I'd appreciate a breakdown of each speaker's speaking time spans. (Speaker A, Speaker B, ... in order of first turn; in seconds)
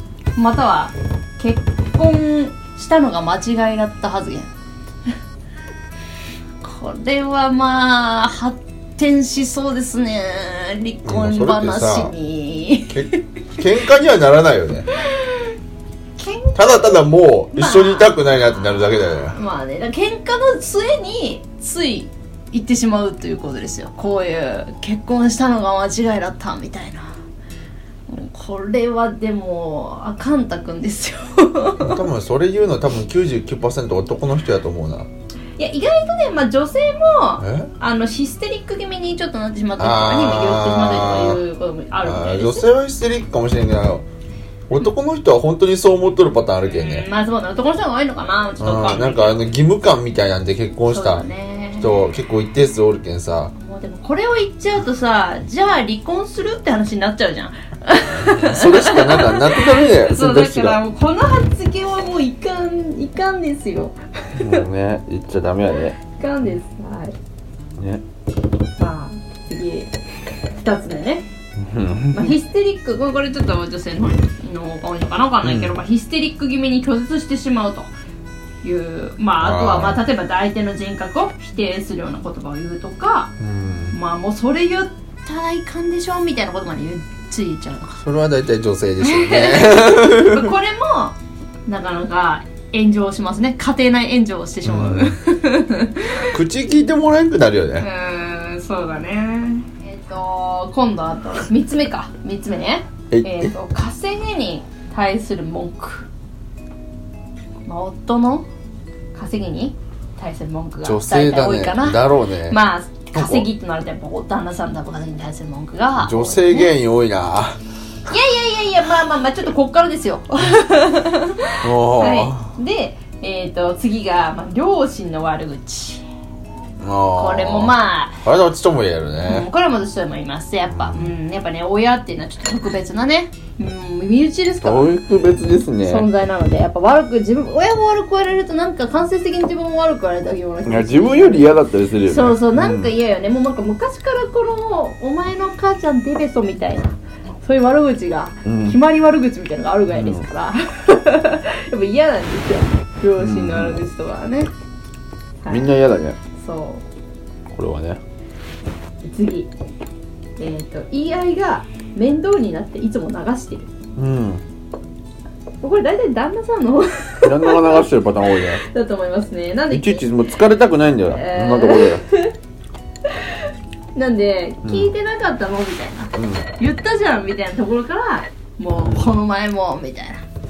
Speaker A: 0.3-4.5, 6.6-13.2, 15.1-15.5, 16.2-27.1, 28.1-32.0, 35.6-42.7, 46.6-49.5, 50.9-52.0, 53.6-64.6, 65.7-67.1, 68.8-69.9, 70.5-71.2, 72.1-77.9, 78.6-83.3, 83.9-88.0, 89.0-96.4, 97.8-106.1, 107.6-108.5, 109.1-116.7, 118.0-126.0, 127.2-128.2, 129.2-135.2, 135.8-154.5, 155.4-155.7, 156.4-156.8, 159.0-159.5, 160.4-163.7, 165.6-167.9, 168.5-170.1, 171.0-172.3, 173.0-180.2
Speaker B: 11.0-12.1, 12.9-14.9, 16.5-19.4, 31.8-35.1, 37.4-37.7, 39.8-41.4, 42.0-44.0, 44.7-47.1, 48.6-51.2, 51.8-53.5, 58.1-60.8, 64.3-66.0, 67.8-68.0, 71.6-72.3, 75.4-75.8, 79.4-80.0, 83.4-84.0, 88.0-90.5, 94.6-95.1, 96.3-97.9, 103.1-103.5, 110.8-112.6, 113.1-113.5, 116.0-117.6, 121.6-122.5, 126.8-129.5, 130.7-131.1, 134.6-136.1, 140.7-142.9, 148.4-148.8, 149.9-150.2, 153.2-153.8, 155.5-156.2, 157.5-158.0, 164.0-164.4, 167.2-168.6, 169.7-172.0, 174.6-174.9, 176.2-176.4, 178.8-179.2